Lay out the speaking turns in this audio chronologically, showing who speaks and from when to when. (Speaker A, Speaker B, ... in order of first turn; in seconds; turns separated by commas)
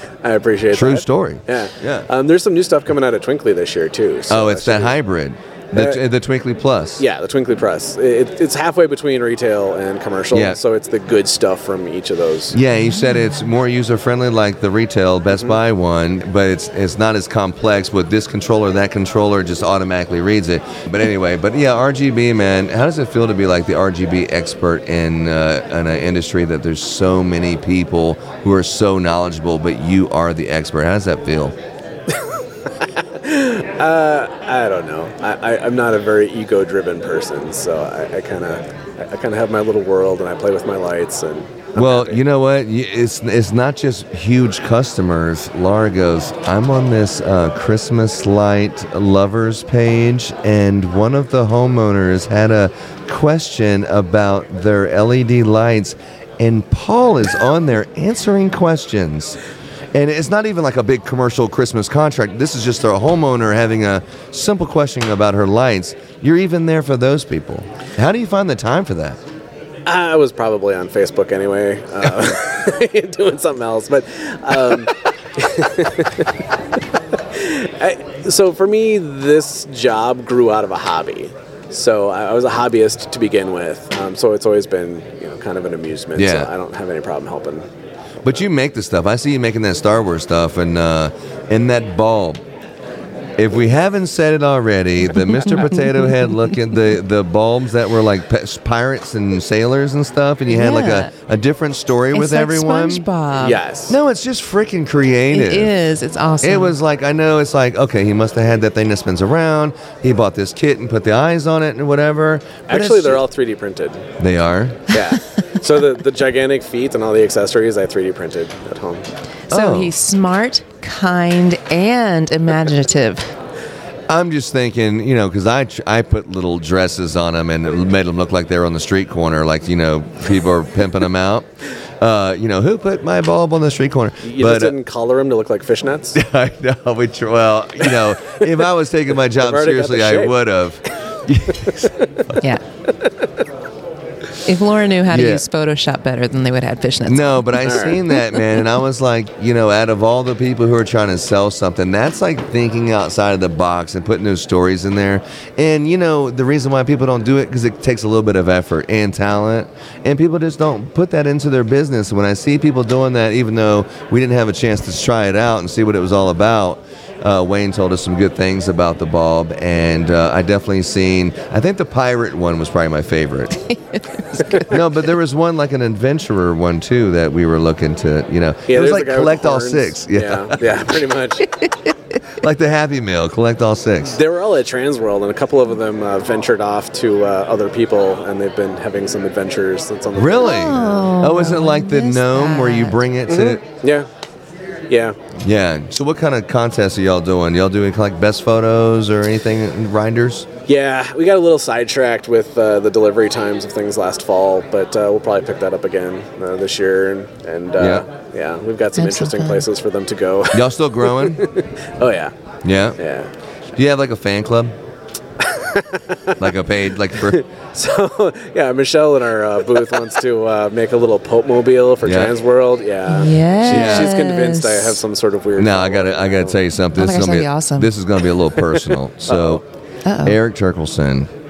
Speaker A: 0.2-5.0, Speaker B: 0.7-2.1, Speaker B: 4.3-7.0, Speaker A: 5.7-6.0, Speaker A: 7.0-12.6, Speaker B: 10.3-10.6, Speaker B: 12.5-31.6, Speaker A: 15.3-15.6, Speaker A: 32.2-42.2, Speaker B: 41.8-59.4, Speaker B: 59.9-69.2, Speaker A: 69.9-76.3, Speaker A: 77.3-87.7, Speaker B: 86.2-86.5, Speaker B: 88.2-92.4, Speaker B: 93.4-103.0, Speaker C: 95.3-96.2, Speaker C: 100.5-101.1, Speaker C: 102.1-103.6, Speaker A: 103.3-104.0, Speaker B: 103.9-105.7, Speaker C: 105.3-106.8, Speaker B: 106.4-113.2, Speaker A: 112.7-114.0, Speaker B: 114.2-114.9, Speaker A: 114.9-119.1, Speaker C: 119.5-123.3, Speaker B: 119.5-120.0, Speaker B: 124.1-131.5, Speaker B: 132.0-134.8, Speaker A: 134.2-136.2, Speaker B: 136.1-141.9, Speaker A: 137.8-138.7, Speaker A: 139.2-140.9, Speaker A: 141.6-142.2, Speaker A: 143.0-143.3, Speaker C: 144.4-148.5, Speaker B: 145.1-145.4, Speaker B: 147.1-173.6, Speaker A: 147.7-148.1, Speaker B: 174.7-180.7, Speaker A: 178.7-181.5, Speaker B: 182.4-184.2, Speaker A: 184.0-190.8, Speaker B: 190.1-193.6, Speaker C: 190.4-193.0, Speaker A: 193.3-194.1, Speaker A: 194.9-195.2, Speaker B: 195.4-200.5, Speaker A: 200.7-212.3, Speaker B: 207.8-208.1, Speaker C: 209.0-209.7, Speaker B: 210.5-211.4, Speaker B: 212.6-213.0, Speaker A: 213.0-213.3, Speaker B: 213.8-214.8, Speaker A: 215.4-216.6, Speaker B: 216.4-217.4, Speaker A: 217.2-226.6, Speaker B: 222.0-222.3, Speaker C: 223.1-225.0, Speaker B: 223.7-224.1, Speaker B: 225.6-229.6, Speaker C: 227.0-227.9, Speaker A: 228.6-229.6, Speaker C: 230.1-230.4, Speaker B: 230.2-231.3